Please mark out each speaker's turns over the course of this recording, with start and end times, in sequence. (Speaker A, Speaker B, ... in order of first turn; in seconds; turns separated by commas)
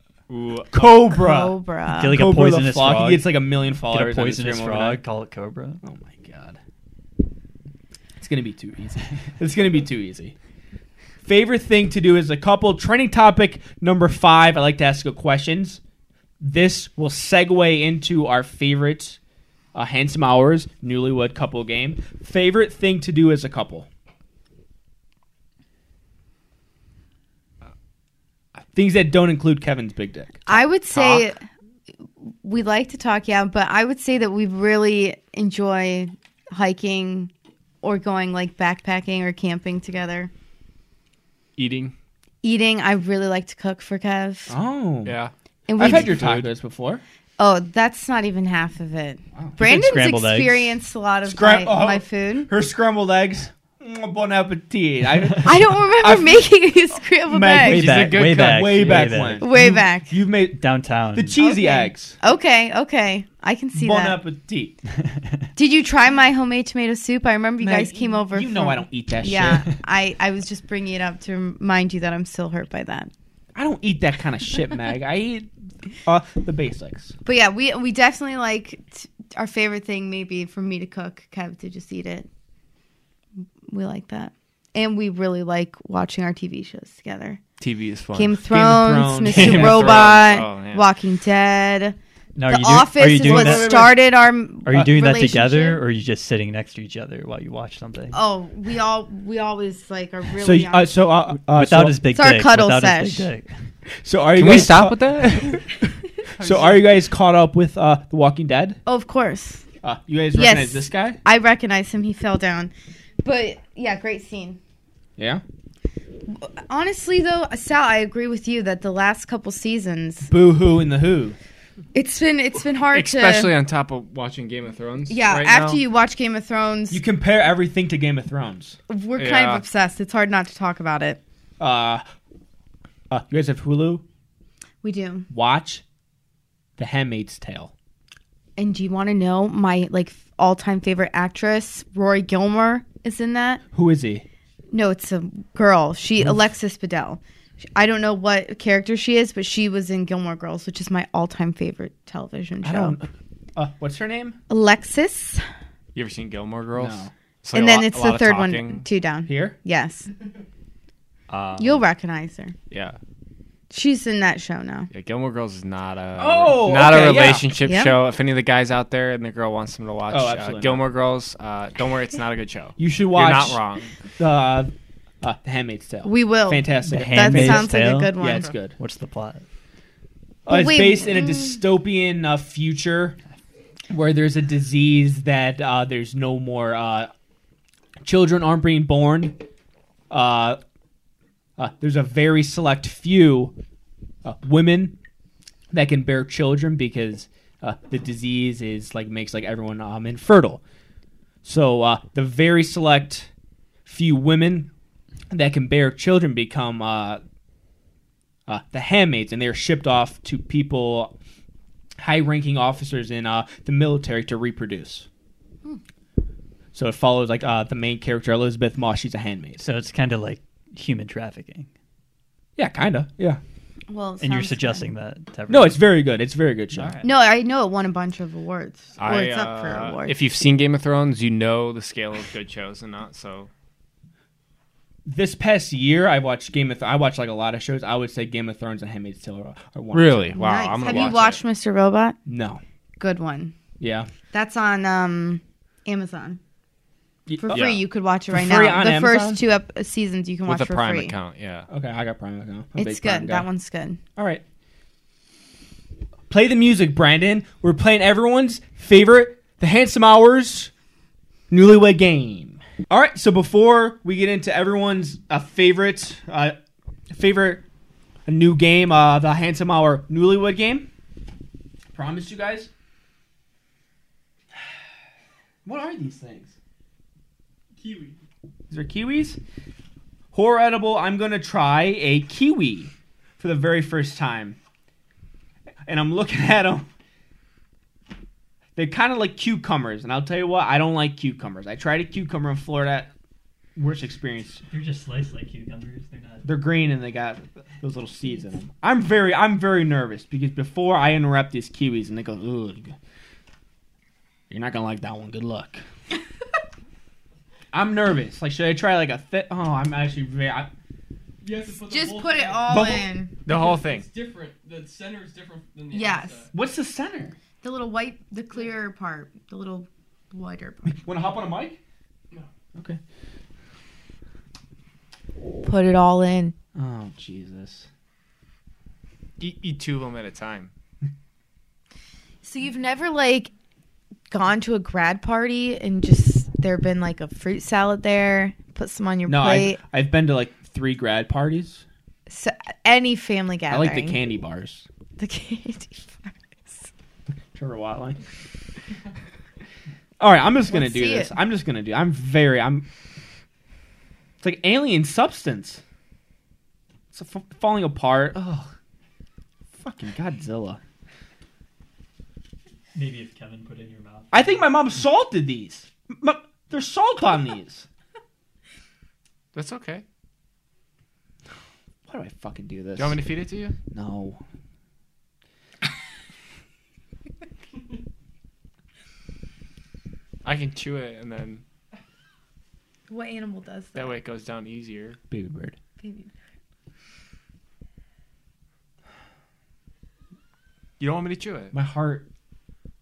Speaker A: 0.3-1.1, Speaker B: 0.7-5.0, Speaker C: 1.1-2.2, Speaker D: 1.9-5.8, Speaker B: 5.8-6.6, Speaker B: 8.2-10.3, Speaker B: 11.2-15.8, Speaker B: 16.4-19.2, Speaker B: 19.7-23.9, Speaker B: 28.8-31.3, Speaker C: 30.5-31.5, Speaker C: 32.3-37.3, Speaker C: 37.8-40.3, Speaker A: 41.6-41.9, Speaker C: 42.4-44.5, Speaker B: 44.5-45.2, Speaker A: 45.0-46.5, Speaker C: 45.7-46.2, Speaker B: 45.8-47.0, Speaker C: 47.4-52.5, Speaker B: 49.4-49.6, Speaker D: 49.6-50.8, Speaker B: 51.3-56.4, Speaker C: 55.4-57.9, Speaker B: 57.3-62.2, Speaker D: 57.6-59.7, Speaker A: 57.8-59.3, Speaker C: 59.4-60.1, Speaker D: 60.5-61.4, Speaker C: 61.4-64.2, Speaker B: 63.8-64.8, Speaker C: 65.6-73.1, Speaker B: 67.6-69.7, Speaker B: 73.6-75.5, Speaker B: 76.0-77.2, Speaker C: 77.3-82.3, Speaker C: 83.7-87.4, Speaker A: 87.6-88.4, Speaker C: 88.1-92.0, Speaker B: 88.5-90.4, Speaker A: 89.3-90.9, Speaker D: 92.4-93.8, Speaker C: 92.5-95.8, Speaker B: 93.1-94.0, Speaker D: 94.7-98.2, Speaker C: 98.1-101.0, Speaker B: 100.4-102.0, Speaker D: 101.5-103.5, Speaker C: 102.1-103.3, Speaker B: 104.0-105.7, Speaker A: 104.4-105.6, Speaker A: 106.4-106.9, Speaker B: 106.4-108.8, Speaker C: 108.9-109.6, Speaker B: 109.8-111.2, Speaker C: 110.3-112.7, Speaker C: 113.2-114.6, Speaker B: 115.2-115.4, Speaker C: 116.3-120.3, Speaker B: 120.3-121.4, Speaker C: 121.9-123.5, Speaker A: 122.9-125.8, Speaker C: 125.1-127.0, Speaker B: 126.9-128.8, Speaker C: 128.9-131.2, Speaker A: 129.2-129.6, Speaker B: 131.6-132.0, Speaker B: 133.1-134.0, Speaker C: 134.8-135.3, Speaker B: 135.3-135.8, Speaker B: 136.8-137.7, Speaker C: 138.6-143.6, Speaker B: 143.7-144.2, Speaker C: 144.7-147.2, Speaker C: 147.8-153.0, Speaker B: 152.6-154.4, Speaker C: 154.5-155.4, Speaker A: 155.9-158.9, Speaker B: 156.8-157.1, Speaker C: 157.5-160.1, Speaker B: 159.3-159.6, Speaker A: 161.3-161.8, Speaker C: 161.6-162.6, Speaker A: 162.7-163.0, Speaker C: 163.7-164.9, Speaker A: 164.9-173.9, Speaker B: 166.2-167.5, Speaker C: 167.6-168.0, Speaker B: 170.1-170.8, Speaker B: 172.8-173.6, Speaker B: 174.2-178.8, Speaker C: 176.0-178.5, Speaker D: 176.8-179.4, Speaker B: 180.5-183.2, Speaker C: 180.5-181.6, Speaker B: 183.9-187.1, Speaker B: 188.0-189.4, Speaker B: 190.1-190.6, Speaker B: 191.6-193.5, Speaker B: 194.2-195.0, Speaker B: 195.7-200.6, Speaker B: 201.4-203.3, Speaker B: 203.9-204.7, Speaker B: 205.3-207.2, Speaker B: 208.5-211.1, Speaker B: 212.0-215.1, Speaker B: 216.7-219.6, Speaker D: 219.6-221.7, Speaker B: 222.6-223.4, Speaker C: 223.9-224.9, Speaker D: 224.2-225.8, Speaker B: 225.5-227.0, Speaker D: 226.7-227.1, Speaker C: 227.0-230.2, Speaker A: 229.0-233.5, Speaker B: 235.1-241.2, Speaker A: 239.9-241.4, Speaker C: 240.3-242.2, Speaker B: 242.3-242.6, Speaker C: 243.0-243.6, Speaker B: 243.8-244.1, Speaker C: 244.3-246.4, Speaker B: 247.3-247.8, Speaker C: 247.4-251.2, Speaker A: 247.5-247.8, Speaker B: 248.3-249.4, Speaker A: 250.5-251.7, Speaker B: 251.7-253.5, Speaker C: 252.8-254.0, Speaker B: 254.2-254.4, Speaker B: 256.3-260.7, Speaker B: 261.5-266.6, Speaker B: 267.1-267.6, Speaker B: 268.3-270.9, Speaker B: 271.9-272.7, Speaker B: 275.6-276.5, Speaker E: 277.8-278.2, Speaker B: 278.7-279.4, Speaker B: 280.3-284.6, Speaker B: 285.9-286.9, Speaker B: 288.8-293.1, Speaker B: 293.8-294.6, Speaker D: 294.7-296.5, Speaker B: 296.4-302.9, Speaker B: 304.5-305.8, Speaker B: 307.7-310.7, Speaker E: 311.4-316.5, Speaker C: 311.8-313.4, Speaker B: 312.7-313.1, Speaker A: 313.5-314.1, Speaker C: 315.9-316.5, Speaker B: 316.5-317.4, Speaker C: 317.6-321.0, Speaker B: 320.9-321.8, Speaker B: 322.8-323.0, Speaker C: 325.6-326.6, Speaker B: 326.8-327.9, Speaker A: 329.4-330.7, Speaker C: 332.4-333.5, Speaker C: 334.3-339.8, Speaker B: 339.3-341.8, Speaker C: 342.3-344.2, Speaker B: 343.7-344.9, Speaker C: 345.2-346.9, Speaker B: 347.6-348.2, Speaker B: 350.2-352.9, Speaker C: 350.7-351.3, Speaker B: 354.4-355.8, Speaker B: 357.1-358.7, Speaker B: 359.8-360.8, Speaker D: 362.9-364.5, Speaker B: 364.3-367.9, Speaker A: 369.5-370.0, Speaker B: 372.1-373.2, Speaker A: 373.0-373.7, Speaker B: 373.9-374.4, Speaker A: 380.4-381.6, Speaker C: 383.1-384.2, Speaker A: 383.9-385.2, Speaker B: 385.3-385.8, Speaker C: 386.0-386.3, Speaker A: 391.0-391.8, Speaker B: 391.7-392.3